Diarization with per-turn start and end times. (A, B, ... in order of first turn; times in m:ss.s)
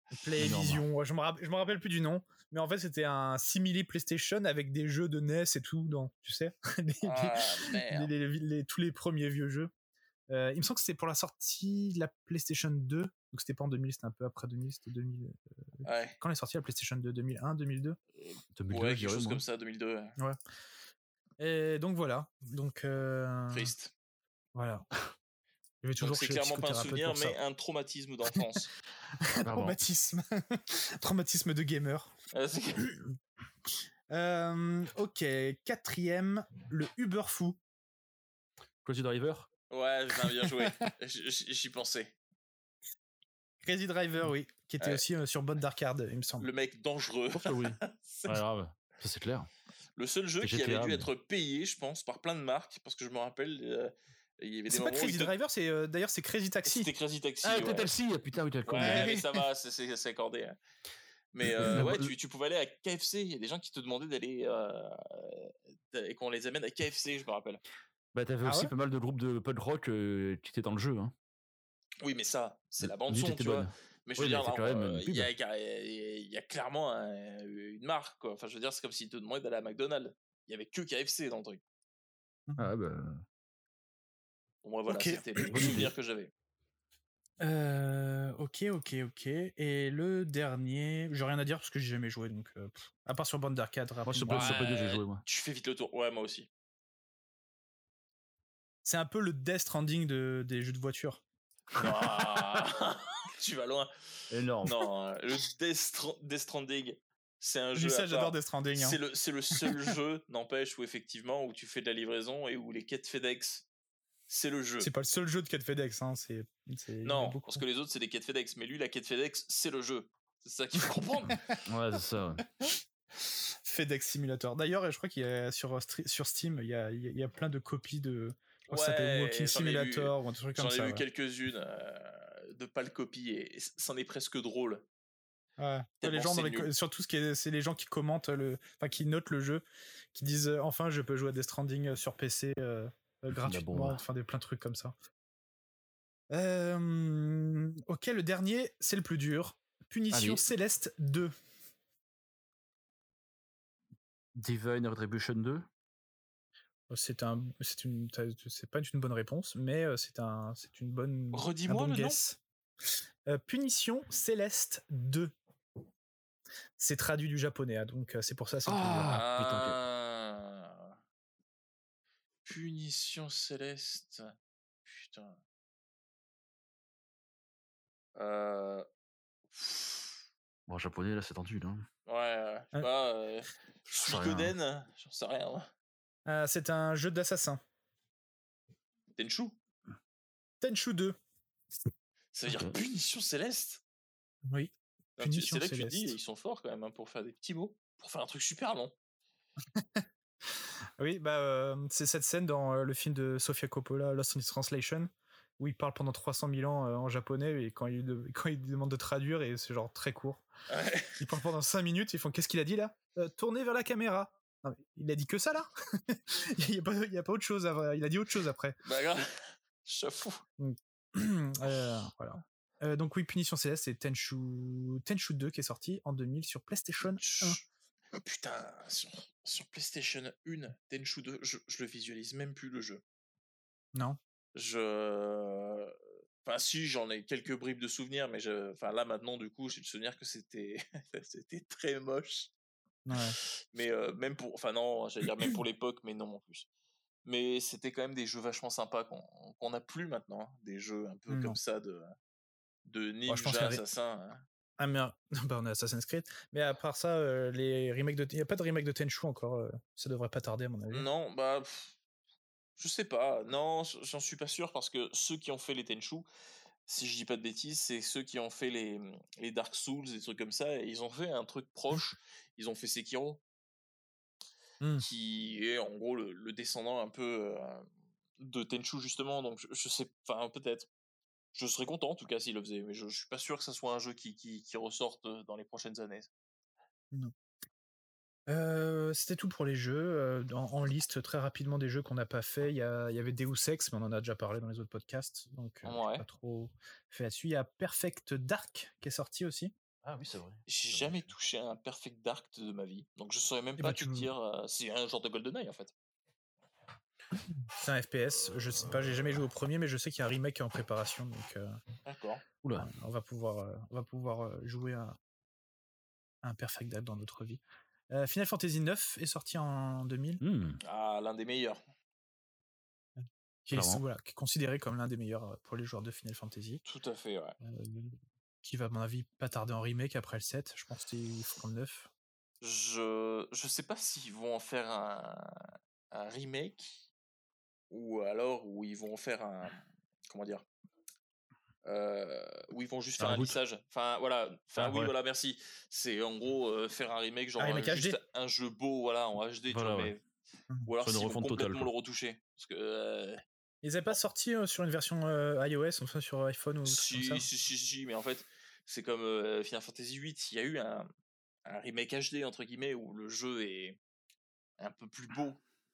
0:00.1-0:09.7 A
0:00.4-0:00.8 B
0:07.0-0:08.1 C
0:10.3-0:18.0 A
0:15.8-0:16.2 C
0:18.2-0:20.2 C
0:18.5-0:19.4 B
0:21.4-0:23.7 A
0:23.5-0:23.9 C
0:24.5-0:24.9 A
0:25.8-0:27.4 A
0:26.0-0:28.7 C
0:29.2-0:32.1 A
0:29.4-0:29.8 B
0:32.3-0:33.0 C
0:34.1-0:37.6 A
0:38.8-0:39.5 B
0:39.7-0:42.2 C
0:43.6-0:46.5 A
0:46.4-0:48.3 C
0:47.3-0:49.5 B
0:50.0-0:55.3 C
0:50.4-0:51.1 B
0:54.7-0:56.9 A
0:56.6-0:57.9 C
0:57.4-0:59.1 B
0:58.6-1:00.6 C
0:58.8-0:59.4 A
1:01.3-1:07.6 C
1:01.6-1:02.1 B
1:08.1-1:11.1 B
1:08.4-1:08.7 A
1:12.0-1:21.6 C
1:12.8-1:15.3 B
1:22.6-1:23.2 B
1:24.6-1:26.3 C
1:24.9-1:25.8 A
1:25.5-1:25.9 B
1:27.4-1:34.6 A
1:34.0-1:35.2 B
1:34.3-1:36.5 C
1:38.8-1:41.2 A
1:41.7-1:53.6 C
1:44.3-1:44.7 B
1:47.7-1:49.0 A
1:54.3-1:54.9 C
1:54.8-1:57.6 A
1:57.0-2:01.6 C
2:01.6-2:02.4 B
2:02.6-2:11.0 A
2:08.7-2:14.9 C
2:15.6-2:24.9 A
2:16.0-2:16.7 C
2:23.4-2:24.0 B
2:26.3-2:31.3 A
2:30.1-2:30.4 B
2:34.4-2:35.6 B
2:36.9-2:42.4 A
2:41.3-2:42.2 C
2:43.2-2:45.3 A
2:46.8-2:49.2 A
2:48.6-2:49.8 B
2:49.1-2:50.9 C
2:52.4-2:54.3 C
2:54.8-2:55.4 C
2:58.2-2:58.9 C
2:59.5-3:00.2 C
3:00.7-3:01.9 B
3:02.0-3:05.7 C
3:03.9-3:04.5 B
3:06.2-3:07.6 A
3:09.2-3:09.6 C
3:10.6-3:11.2 A
3:12.3-3:13.8 C
3:14.4-3:16.2 A
3:15.2-3:18.9 C
3:19.7-3:30.4 A
3:30.7-3:31.2 C
3:31.2-3:38.8 A
3:38.8-3:40.4 C
3:40.6-3:47.6 A
3:47.2-3:53.0 C
3:54.5-4:02.5 C
4:03.0-4:03.4 A
4:03.2-4:06.7 C
4:07.2-4:12.1 C
4:11.3-4:11.6 A
4:12.8-4:14.4 C
4:13.3-4:13.8 A
4:14.8-4:21.1 A
4:20.9-4:22.0 C
4:22.8-4:26.3 C
4:26.8-4:33.4 C
4:35.0-4:37.9 C
4:38.4-4:40.9 C
4:41.5-4:46.3 C
4:48.5-4:59.7 A
4:55.8-4:56.2 C
5:00.0-5:01.2 B
5:00.7-5:05.9 C
5:03.8-5:04.3 A
5:07.5-5:11.8 A
5:12.0-5:12.4 C
5:12.6-5:12.9 B
5:12.8-5:15.2 A
5:16.4-5:20.4 A
5:20.4-5:20.8 B
5:20.8-5:21.8 C
5:23.2-5:26.8 A
5:23.7-5:24.0 B
5:26.8-5:27.6 C
5:27.6-5:32.1 A
5:32.6-5:37.0 C
5:37.9-5:40.6 C
5:41.8-5:50.2 C
5:43.2-5:43.6 B
5:44.8-5:45.1 B
5:47.6-5:48.2 A
5:49.7-5:50.1 B
5:50.8-5:53.4 C
5:51.0-5:51.9 B
5:53.8-5:57.4 A
5:56.8-6:01.1 C
6:01.6-6:04.0 C
6:04.8-6:05.6 C